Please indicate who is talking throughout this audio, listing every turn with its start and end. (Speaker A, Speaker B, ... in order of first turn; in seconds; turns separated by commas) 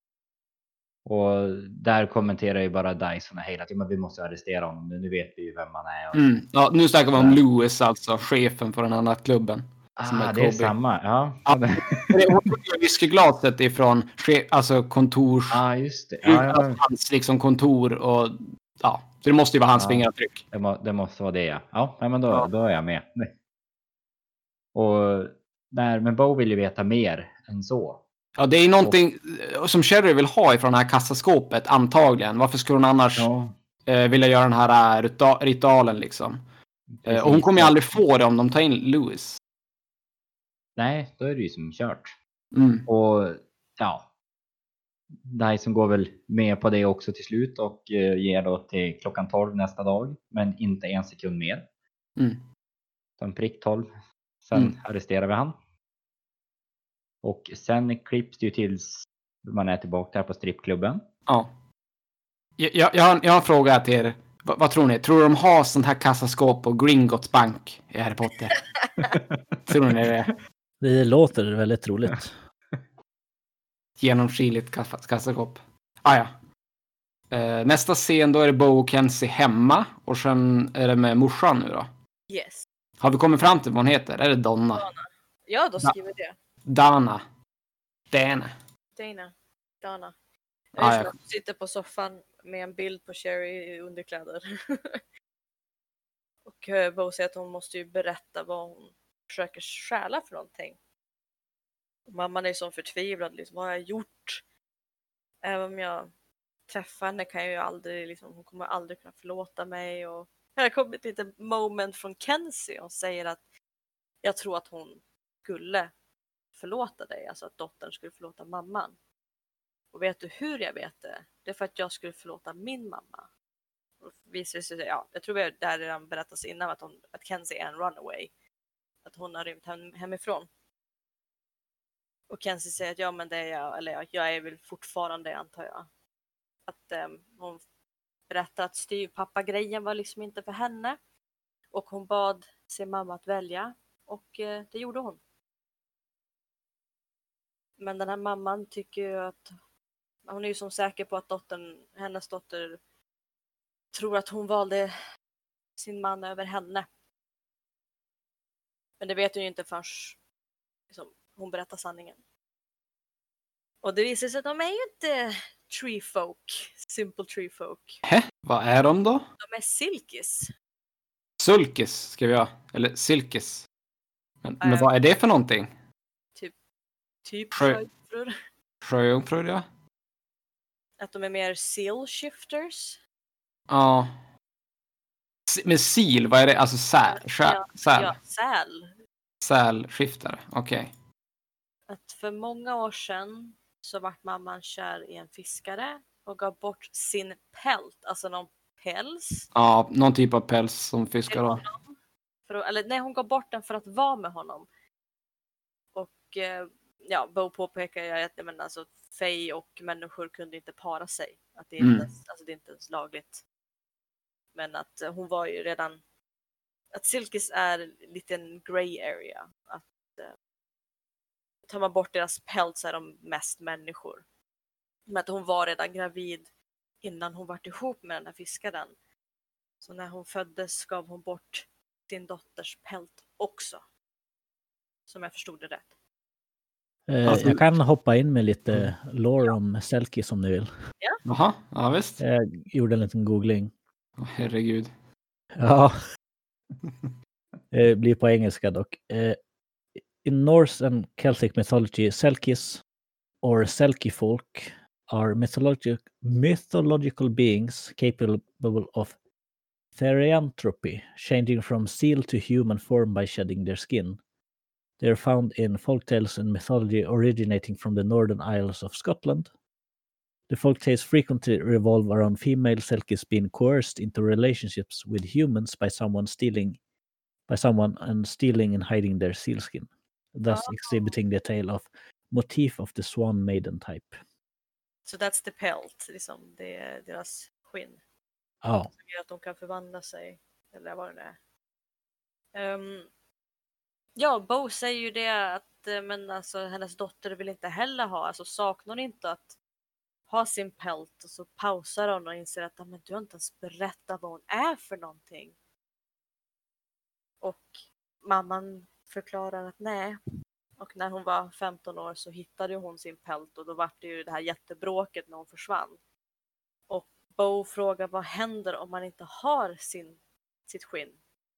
Speaker A: 1.1-6.2, Speaker B: 6.1-10.8, Speaker A: 7.1-7.4, Speaker A: 10.0-12.4, Speaker B: 11.5-15.6, Speaker A: 15.5-16.8, Speaker B: 16.2-20.4, Speaker A: 19.8-23.3, Speaker A: 24.7-28.0, Speaker B: 28.4-33.3, Speaker A: 33.2-33.5, Speaker B: 33.9-36.4, Speaker A: 37.0-37.9, Speaker B: 37.1-39.4, Speaker A: 40.8-42.1, Speaker B: 42.5-42.9, Speaker A: 42.9-44.0, Speaker A: 45.2-51.6, Speaker A: 53.2-53.9, Speaker A: 54.5-55.6, Speaker A: 57.2-61.0, Speaker B: 62.6-68.7, Speaker B: 69.7-70.3, Speaker C: 70.8-72.3, Speaker B: 74.0-76.3, Speaker B: 77.3-81.9, Speaker D: 82.3-82.7, Speaker B: 83.0-84.9, Speaker D: 84.8-86.4, Speaker B: 86.7-87.2, Speaker B: 88.1-88.5, Speaker D: 89.0-90.1, Speaker D: 90.8-95.0, Speaker B: 90.8-91.1, Speaker D: 96.5-100.8, Speaker D: 102.1-104.4, Speaker D: 105.4-106.1, Speaker D: 106.7-113.4, Speaker D: 114.2-115.9, Speaker D: 116.6-119.0, Speaker D: 119.9-123.3, Speaker D: 124.0-128.3, Speaker D: 129.0-130.5, Speaker D: 132.3-135.9, Speaker D: 136.7-137.6, Speaker D: 138.3-141.0, Speaker D: 141.7-145.2, Speaker D: 147.8-149.5, Speaker D: 150.3-152.8, Speaker D: 153.9-154.9, Speaker D: 155.8-156.9, Speaker D: 159.0-160.2, Speaker D: 160.9-162.2, Speaker D: 163.8-168.0, Speaker B: 168.1-169.2, Speaker D: 169.4-170.5, Speaker B: 171.4-173.7, Speaker B: 174.4-175.7, Speaker D: 174.6-174.9, Speaker D: 177.2-178.3, Speaker B: 177.5-177.8, Speaker B: 178.8-179.7, Speaker D: 181.0-183.0, Speaker B: 183.7-184.1, Speaker B: 185.5-188.2, Speaker D: 187.1-188.9, Speaker B: 189.4-190.9, Speaker D: 191.9-199.5, Speaker B: 199.6-201.6, Speaker D: 201.3-201.9, Speaker D: 202.5-204.7, Speaker D: 205.9-213.4, Speaker B: 211.8-212.1, Speaker D: 214.5-216.0, Speaker D: 216.9-220.3, Speaker D: 221.7-224.2, Speaker D: 225.1-226.5, Speaker D: 227.0-228.9, Speaker D: 229.8-233.8, Speaker D: 235.1-235.9, Speaker C: 237.1-240.7, Speaker B: 237.3-237.6, Speaker B: 241.3-242.2, Speaker C: 242.2-243.7, Speaker B: 244.2-244.9, Speaker C: 245.6-245.9, Speaker C: 247.7-249.4, Speaker C: 250.2-252.8, Speaker C: 253.4-259.1, Speaker C: 259.9-264.2, Speaker C: 265.0-269.5, Speaker C: 270.5-276.8, Speaker C: 277.5-284.2, Speaker D: 280.5-281.2, Speaker D: 285.1-288.0, Speaker C: 288.6-288.9, Speaker D: 288.9-291.4, Speaker D: 292.5-293.1, Speaker D: 294.2-299.6, Speaker D: 300.3-305.5, Speaker D: 307.4-310.2, Speaker D: 310.8-316.0, Speaker D: 316.9-321.2